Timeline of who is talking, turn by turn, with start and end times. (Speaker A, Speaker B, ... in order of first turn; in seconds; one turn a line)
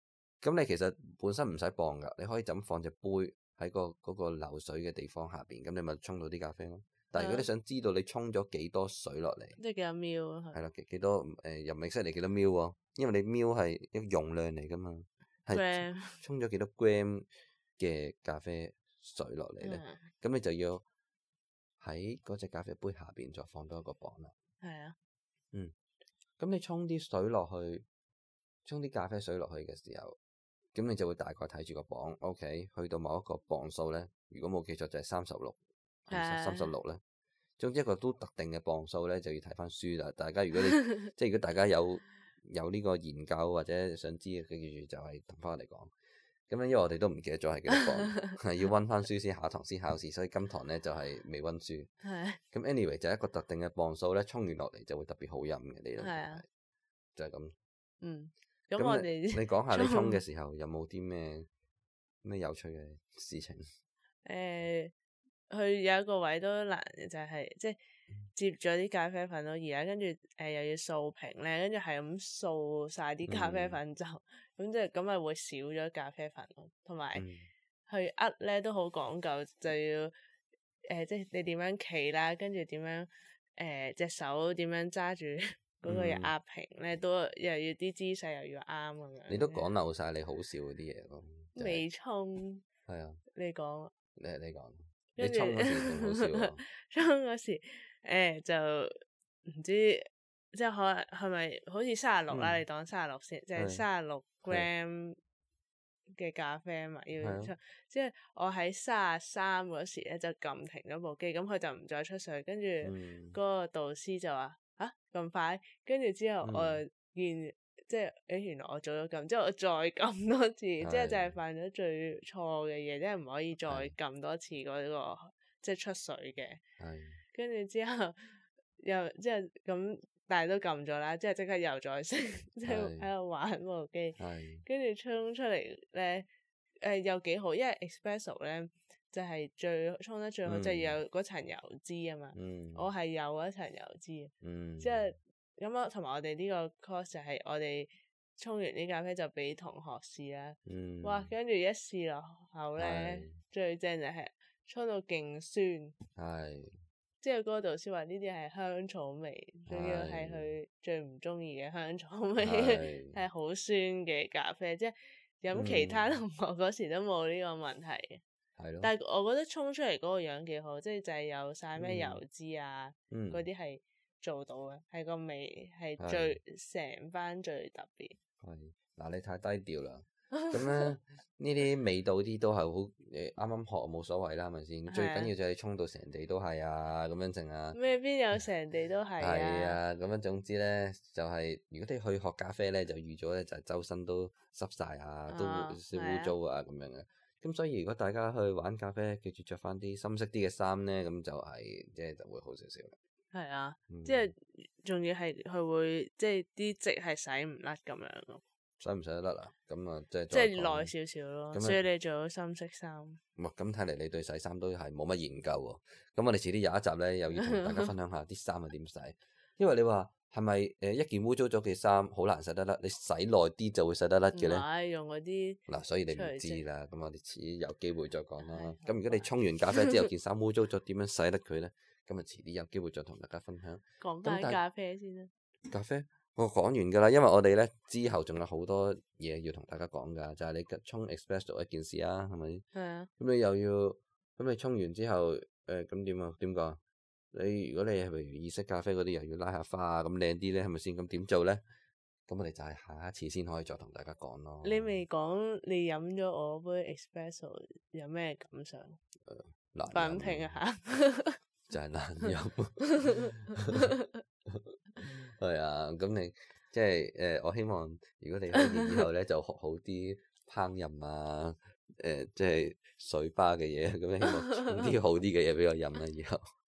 Speaker A: 0.4-9.6
Speaker B: 7.2-7.5
Speaker B: 9.6-10.6
Speaker A: 10.5-20.8
Speaker B: 15.5-16.2
Speaker B: 19.6-20.1
Speaker A: 21.8-24.3
Speaker B: 24.6-24.9
Speaker A: 26.4-27.8
Speaker A: 28.6-30.2
Speaker A: 30.7-37.0
Speaker B: 36.1-36.7
Speaker A: 37.6-45.9
Speaker A: 46.5-51.9
Speaker B: 47.8-48.1
Speaker B: 52.0-52.4
Speaker A: 52.5-56.4
Speaker B: 56.0-56.4
Speaker A: 57.1-57.5
Speaker B: 58.0-60.2
Speaker A: 58.8-61.5
Speaker A: 62.2-63.7
Speaker B: 64.2-64.9
Speaker B: 65.5-67.8
Speaker B: 68.3-77.2
Speaker A: 73.3-73.8
Speaker A: 77.1-77.5
Speaker B: 77.9-80.1
Speaker B: 80.8-89.7
Speaker A: 85.8-86.3
Speaker A: 89.3-91.8
Speaker B: 91.5-92.6
Speaker A: 92.9-93.2
Speaker B: 93.3-93.9
Speaker A: 94.2-96.6
Speaker B: 95.2-105.2
Speaker A: 102.3-102.6
Speaker A: 103.5-103.8
Speaker B: 106.1-126.6
Speaker A: 107.2-107.5
Speaker A: 112.8-113.4
Speaker A: 116.4-116.8
Speaker A: 120.8-121.4
Speaker A: 123.6-123.9
Speaker A: 126.8-127.2
Speaker B: 127.3-136.3
Speaker A: 132.6-133.1
Speaker A: 134.2-134.6
Speaker B: 136.8-155.9
Speaker A: 140.4-141.0
Speaker A: 142.3-142.9
Speaker A: 144.4-145.2
Speaker A: 150.7-151.3
Speaker A: 152.8-153.4
Speaker A: 156.1-156.7
Speaker B: 157.2-168.2
Speaker A: 159.7-160.6
Speaker A: 162.4-163.2
Speaker A: 165.5-166.2
Speaker A: 168.6-168.9
Speaker B: 168.8-178.2
Speaker A: 171.8-172.2
Speaker A: 173.1-173.4
Speaker A: 176.0-176.4
Speaker A: 178.4-187.8
Speaker B: 180.4-180.8
Speaker B: 184.9-185.3
Speaker B: 187.7-189.8
Speaker A: 189.2-202.9
Speaker B: 195.3-196.3
Speaker B: 203.3-208.4
Speaker A: 203.9-204.3
Speaker A: 208.8-210.9
Speaker B: 210.3-213.2
Speaker A: 211.5-211.8
Speaker A: 213.4-224.6
Speaker B: 217.3-217.9
Speaker B: 224.3-226.6
Speaker A: 225.7-234.6
Speaker B: 228.4-229.3
Speaker B: 234.0-235.3
Speaker A: 235.7-242.6
Speaker B: 242.7-243.1
Speaker A: 243.2-246.8
Speaker A: 247.3-251.6
Speaker A: 252.3-255.0
Speaker B: 254.6-259.0
Speaker A: 259.2-260.6
Speaker B: 259.9-261.4
Speaker A: 261.7-263.9
Speaker A: 264.5-276.5
Speaker B: 268.5-268.8